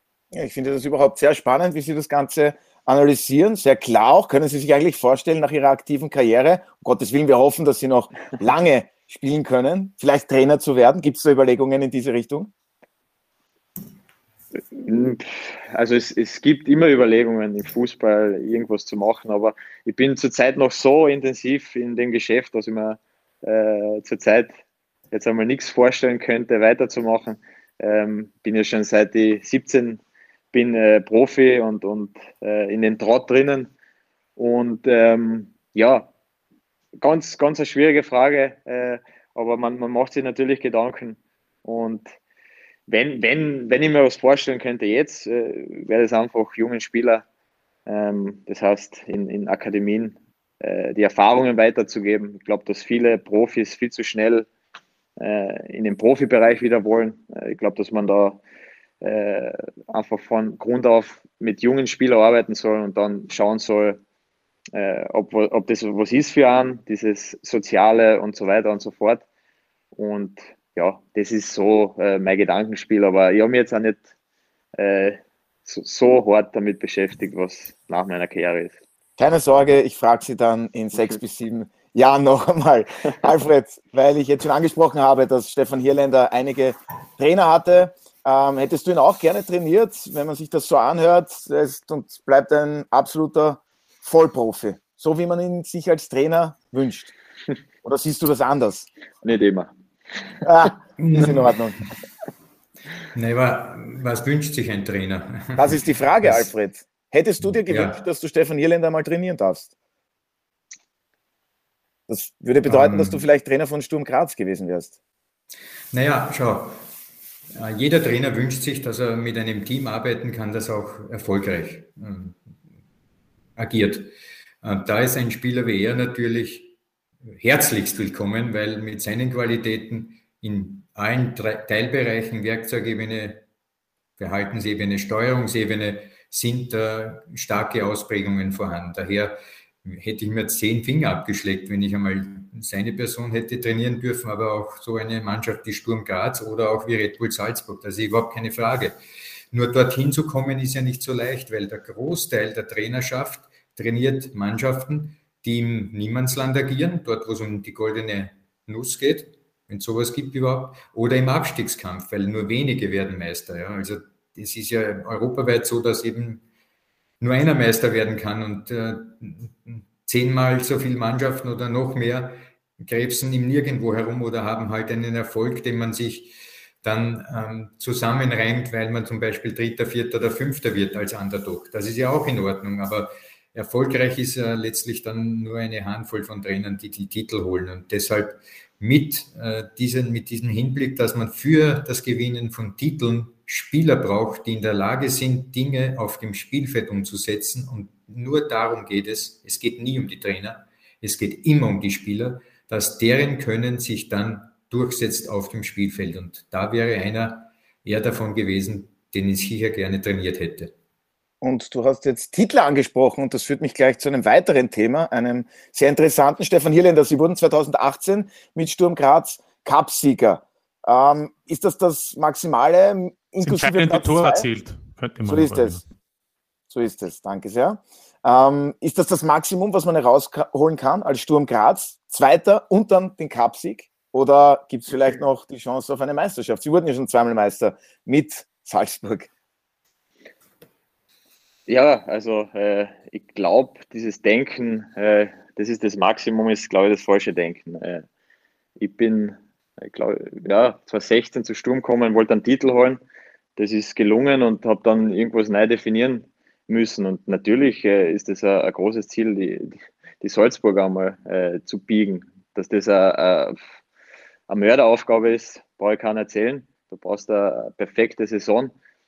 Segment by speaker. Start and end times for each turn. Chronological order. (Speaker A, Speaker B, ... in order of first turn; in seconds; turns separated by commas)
Speaker A: 0.3-12.5, Speaker B: 14.8-24.5, Speaker B: 25.1-30.0, Speaker B: 30.5-33.7, Speaker B: 34.4-36.1, Speaker B: 37.0-42.1, Speaker B: 42.9-47.2, Speaker B: 47.9-54.5, Speaker B: 55.2-58.4, Speaker B: 59.0-64.0, Speaker B: 64.7-69.2, Speaker B: 70.0-74.0, Speaker B: 74.8-78.8, Speaker A: 79.2-97.1, Speaker A: 97.8-98.9, Speaker B: 99.2-99.7, Speaker A: 100.4-101.8, Speaker C: 101.0-101.4, Speaker C: 103.1-105.7, Speaker A: 105.6-109.7, Speaker C: 107.6-108.0, Speaker A: 112.1-114.9, Speaker C: 112.7-113.2, Speaker C: 115.9-116.8, Speaker C: 117.5-122.4, Speaker C: 123.6-126.7, Speaker C: 127.3-133.4, Speaker C: 134.2-149.0, Speaker C: 149.5-166.4, Speaker C: 167.2-210.7, Speaker A: 211.4-224.5, Speaker D: 223.4-225.8, Speaker A: 225.3-225.8, Speaker A: 226.7-239.3, Speaker B: 241.7-248.1, Speaker B: 248.8-253.0, Speaker B: 253.6-263.6, Speaker B: 264.5-268.7